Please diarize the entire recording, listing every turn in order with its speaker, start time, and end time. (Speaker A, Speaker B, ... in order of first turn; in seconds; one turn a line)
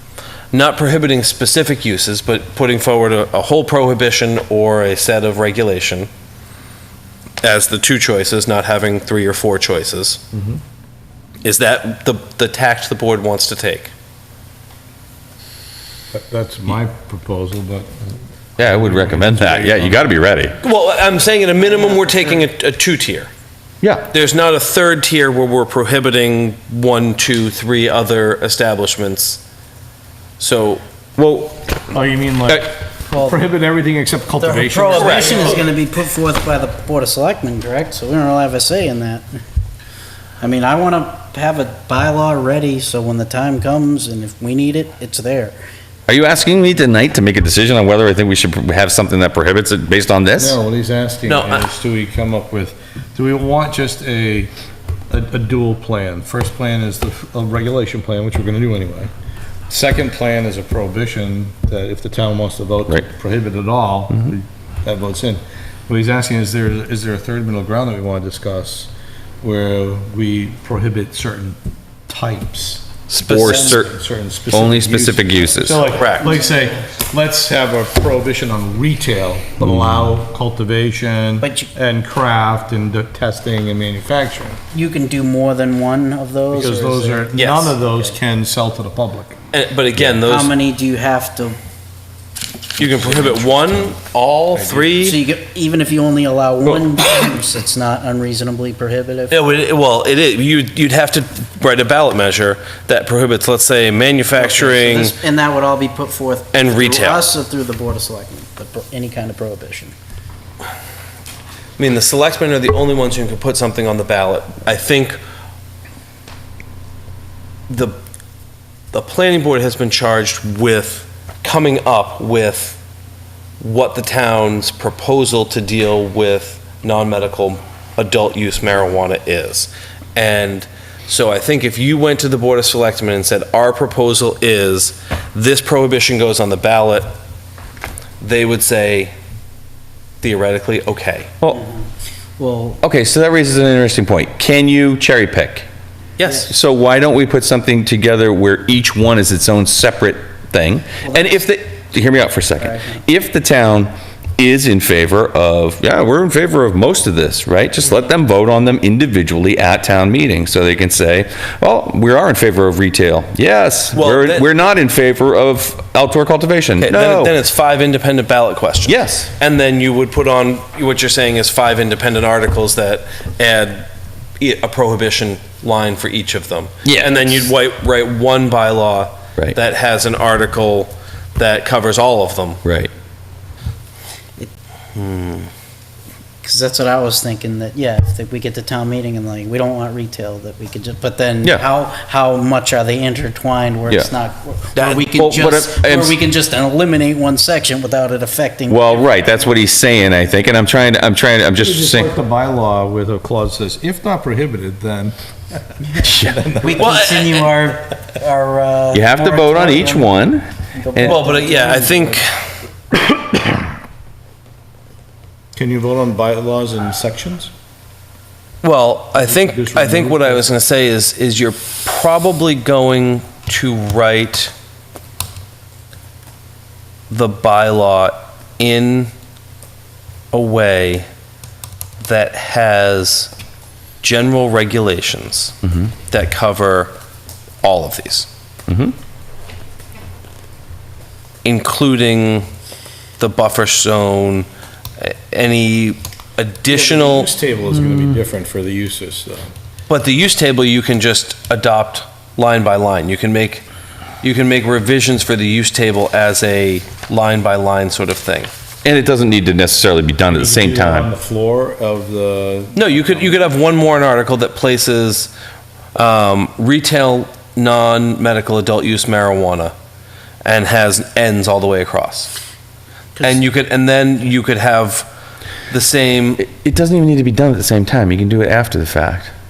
Speaker A: 0.5-6.1
Speaker A: 7.4-10.2
Speaker B: 10.3-10.6
Speaker A: 11.4-13.9
Speaker B: 16.1-20.2
Speaker C: 18.6-20.6
Speaker A: 20.6-23.3
Speaker C: 23.8-24.1
Speaker A: 24.1-29.4
Speaker A: 30.4-30.8
Speaker C: 31.2-31.7
Speaker B: 31.9-35.7
Speaker D: 33.1-33.4
Speaker D: 34.4-39.3
Speaker A: 34.9-35.6
Speaker D: 40.4-45.5
Speaker C: 46.1-50.6
Speaker B: 50.4-54.5
Speaker A: 51.2-51.7
Speaker B: 55.1-59.1
Speaker B: 59.7-68.9
Speaker B: 69.4-71.6
Speaker B: 72.1-84.6
Speaker A: 73.1-73.6
Speaker C: 73.1-73.9
Speaker C: 74.5-75.9
Speaker A: 76.0-76.3
Speaker D: 76.3-76.7
Speaker C: 79.6-80.1
Speaker D: 81.4-81.7
Speaker D: 84.7-87.3
Speaker B: 86.5-89.4
Speaker A: 87.3-87.8
Speaker D: 87.8-88.2
Speaker A: 89.5-90.5
Speaker D: 90.2-91.6
Speaker A: 92.8-95.2
Speaker B: 94.6-94.9
Speaker D: 95.0-99.4
Speaker A: 99.3-105.2
Speaker D: 104.4-110.0
Speaker A: 106.5-107.2
Speaker A: 111.8-115.2
Speaker A: 117.7-118.0
Speaker A: 118.9-122.8
Speaker A: 123.6-137.1
Speaker A: 138.2-139.1
Speaker A: 140.2-141.4
Speaker D: 141.4-141.9
Speaker D: 142.4-142.8
Speaker C: 142.8-145.7
Speaker A: 146.2-146.5
Speaker C: 146.3-167.4
Speaker D: 151.0-151.4
Speaker D: 152.6-153.0
Speaker A: 163.9-164.5
Speaker A: 166.8-173.9
Speaker C: 168.9-169.3
Speaker A: 174.4-182.6
Speaker C: 176.8-177.3
Speaker C: 182.7-182.9
Speaker A: 184.9-185.5
Speaker D: 186.4-199.5
Speaker A: 194.8-195.1
Speaker C: 195.1-196.2
Speaker C: 198.7-202.1
Speaker B: 201.6-205.2
Speaker B: 205.9-207.0
Speaker C: 206.0-206.4
Speaker D: 206.6-210.2
Speaker A: 206.7-207.5
Speaker C: 208.9-211.2
Speaker D: 210.8-212.2
Speaker A: 211.0-212.3
Speaker B: 211.1-211.8
Speaker B: 215.6-217.5
Speaker A: 218.6-224.5
Speaker B: 219.2-220.5
Speaker A: 227.1-229.1
Speaker A: 230.3-231.1
Speaker A: 232.0-233.3
Speaker A: 234.0-235.6
Speaker A: 236.1-236.9
Speaker A: 237.6-238.3
Speaker C: 238.7-239.0
Speaker A: 241.4-242.5
Speaker A: 243.2-244.5
Speaker A: 245.0-247.3
Speaker B: 246.7-249.5
Speaker A: 249.9-253.6
Speaker A: 254.2-258.5
Speaker C: 258.8-261.1
Speaker B: 260.3-263.4
Speaker A: 262.7-265.3
Speaker A: 265.9-269.7
Speaker A: 270.4-272.3
Speaker D: 273.2-273.4
Speaker A: 273.2-275.1
Speaker A: 275.7-276.4
Speaker C: 276.4-279.3